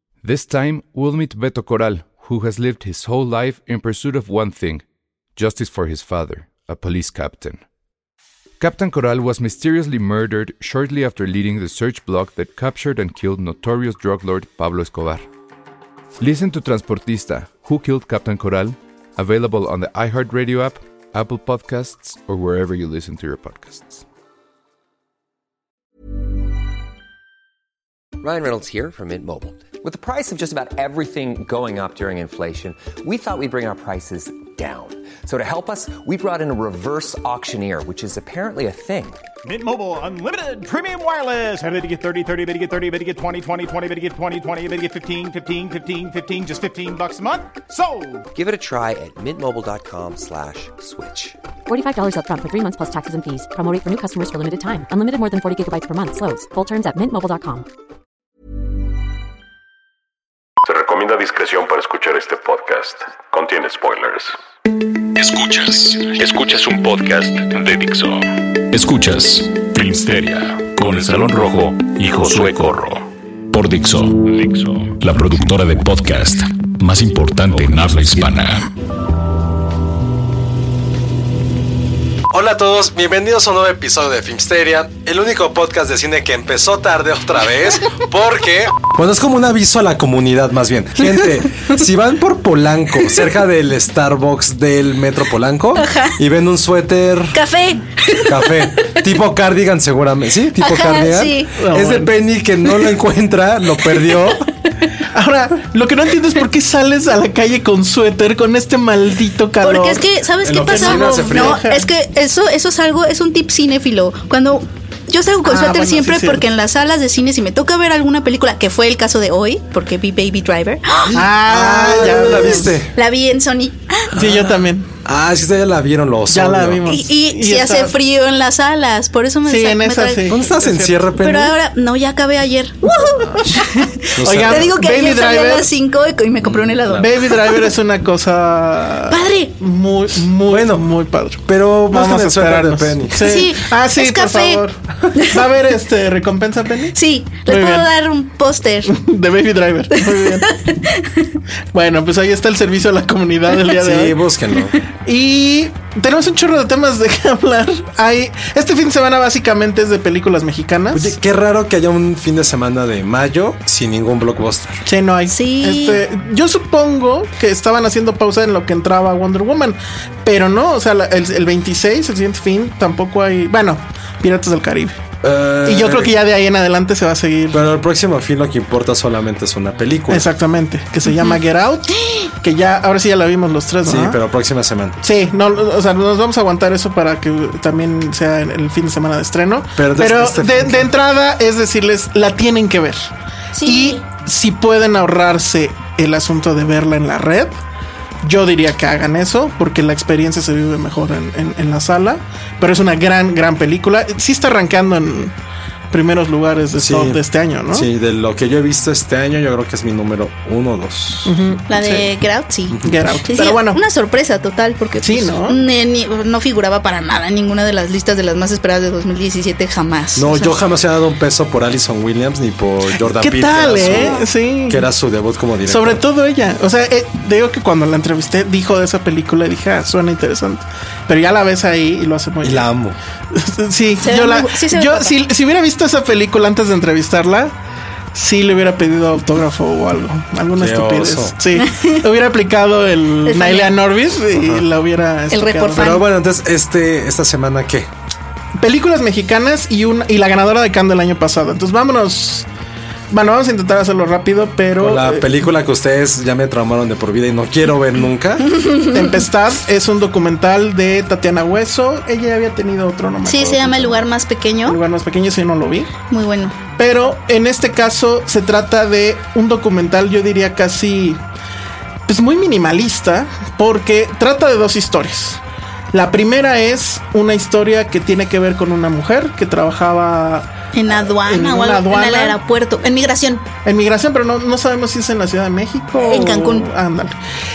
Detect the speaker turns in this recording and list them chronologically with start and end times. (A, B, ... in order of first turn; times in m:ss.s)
0:00.2-0:04.8 A
0:05.4-0:07.6 A
0:08.6-0:15.2 A
0:16.2-0:24.0 A
0:28.2-0:39.2 B
0:39.4-0:48.3 C
0:48.3-0:51.4 B
0:51.7-0:57.7 D
1:00.6-1:04.4 E
1:05.1-1:18.7 E
1:22.3-1:37.4 F
1:35.7-1:36.2 G
1:37.3-1:38.9 G
1:38.2-1:44.4 F
1:40.6-1:41.6 G
1:41.6-1:42.1 H
1:43.8-1:44.4 G
1:45.1-1:50.0 H
1:49.6-2:01.2 G
1:50.4-1:51.6 F
1:50.6-1:51.9 H
1:55.4-1:56.4 H
2:01.1-2:02.8 H
2:01.1-2:02.9 F
2:01.9-2:04.1 G
2:04.1-2:04.9 H
2:04.2-2:04.5 F
2:05.0-2:06.8 F
2:06.3-2:07.9 H
2:06.8-2:10.2 G
2:09.4-2:11.1 H
2:10.3-2:11.5 F
2:11.2-2:17.6 G
2:14.2-2:14.7 F
2:14.2-2:15.7 H
2:16.5-2:17.1 F
2:16.9-2:27.9 H
2:19.1-2:19.5 G
2:20.5-2:20.8 F
2:21.5-2:23.2 F
2:23.2-2:24.6 G
2:25.1-2:25.4 G
2:26.9-2:28.9 G
2:28.8-2:30.5 H
2:29.9-2:31.4 G
2:31.7-2:34.2 H
2:33.7-2:34.8 F
2:35.0-2:41.2 H
2:40.9-2:44.8 F
2:44.8-2:55.0 H
2:45.3-2:46.0 G
2:55.2-2:56.1 F
2:55.6-2:57.7 H
2:57.5-3:00.2 F
3:00.1-3:04.2 H
3:01.1-3:01.4 G
3:01.9-3:02.3 G
3:03.8-3:05.0 F
3:05.0-3:13.1 H
3:09.8-3:10.9 F
3:13.5-3:14.0 G
3:13.6-3:17.5 H
3:18.2-3:25.3 H
3:25.9-3:27.9 H
3:26.8-3:27.2 F
3:27.7-3:31.3 F
3:31.2-3:32.1 H
3:31.7-3:40.6 G
3:32.8-3:33.8 H
3:35.0-3:35.6 H
3:40.2-3:44.2 F
3:43.0-3:44.9 H
3:43.8-3:44.2 G
3:44.7-3:46.0 F
3:45.6-3:52.7 H
3:52.4-3:53.0 F
3:53.3-3:57.5 H
3:54.0-3:55.2 G
3:58.1-4:06.0 H
4:00.6-4:01.3 F
4:01.5-4:02.0 G
4:03.2-4:03.7 G
4:04.4-4:04.6 F
4:05.3-4:06.0 G
4:05.8-4:07.9 F
4:08.6-4:12.5 H
4:13.1-4:15.4 H
4:14.8-4:18.5 F
4:18.6-4:18.9 G
4:18.9-4:24.1 H
4:23.2-4:24.8 G
4:24.6-4:25.9 H
4:26.1-4:26.6 G
4:26.8-4:31.2 H
4:32.0-4:35.4 H
4:35.9-4:42.4 H
4:40.7-4:43.5 G
4:43.6-4:47.2 H
4:46.0-4:46.7 G